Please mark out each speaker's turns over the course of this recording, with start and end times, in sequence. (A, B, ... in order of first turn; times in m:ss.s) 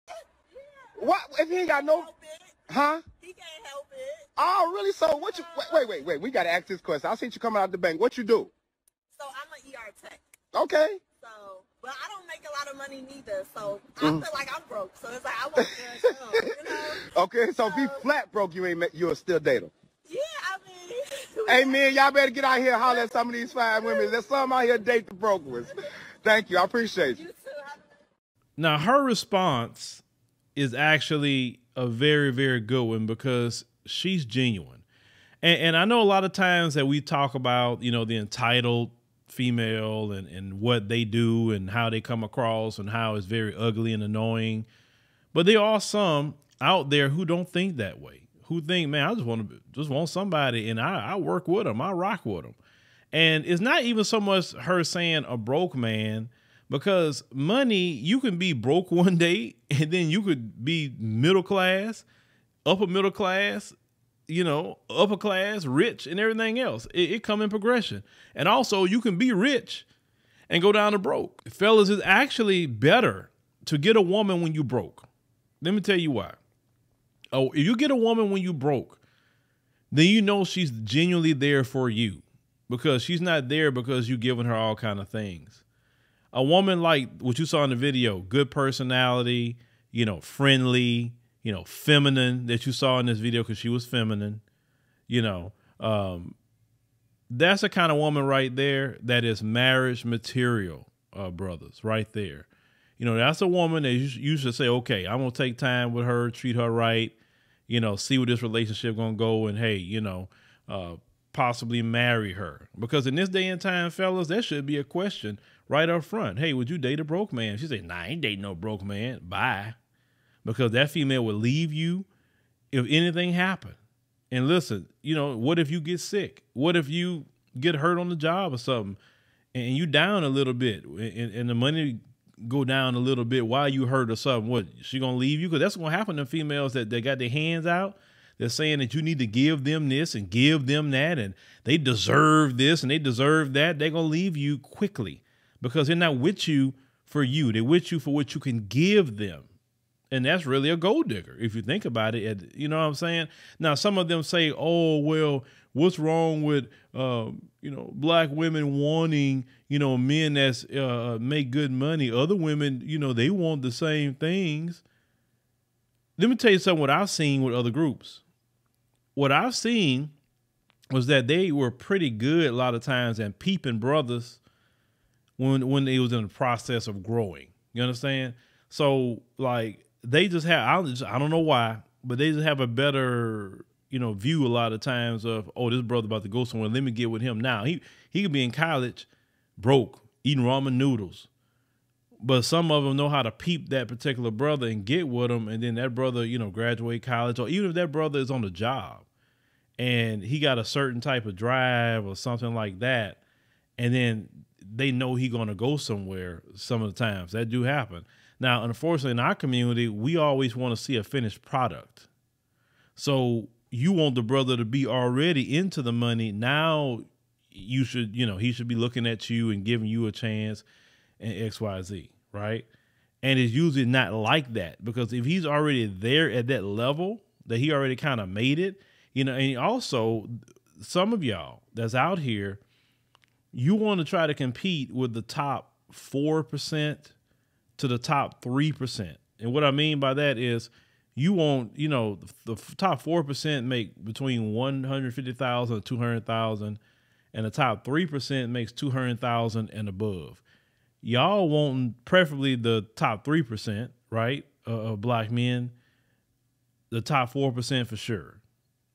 0:00.5-0:02.5 A
0:01.0-0:02.1 B
0:02.7-0:03.0 B
0:03.2-0:04.3 A
0:04.4-0:08.5 B
0:05.1-0:06.0 A
0:09.1-0:10.2 A
0:10.5-0:11.0 B
0:11.2-0:17.1 A
0:15.8-0:19.7 B
0:17.6-0:18.0 A
0:20.0-0:21.9 A
0:21.5-0:25.7 B
0:22.8-0:24.4 A
0:26.2-0:27.2 B
0:27.1-0:27.9 A
0:28.6-0:30.0 C
0:30.6-0:34.8 C
0:35.4-0:44.7 C
0:45.3-0:52.6 C
0:53.1-1:02.0 C
1:02.6-1:03.7 C
1:04.3-1:09.8 C
1:10.5-1:15.0 C
1:15.6-1:16.4 C
1:17.3-1:19.0 C
1:19.9-1:25.6 C
1:26.3-1:34.4 C
1:35.1-1:36.4 C
1:37.3-1:42.5 C
1:43.0-1:47.2 C
1:47.7-1:59.8 C
2:00.4-2:02.1 C
2:02.7-2:03.8 C
2:04.3-2:09.0 C
2:09.5-2:29.5 C
2:30.1-2:44.8 C
2:46.2-2:48.2 C
2:49.1-2:50.1 C
2:50.9-2:54.4 C
2:55.4-3:11.3 C
3:12.2-3:19.1 C
3:19.8-3:23.2 C
3:23.8-3:32.1 C
3:33.0-3:40.6 C
3:41.2-3:42.7 C
3:43.2-3:52.6 C
3:53.5-3:57.1 C
3:57.8-4:06.8 C
4:07.3-4:10.4 C
4:11.0-4:15.7 C
4:16.9-4:18.4 C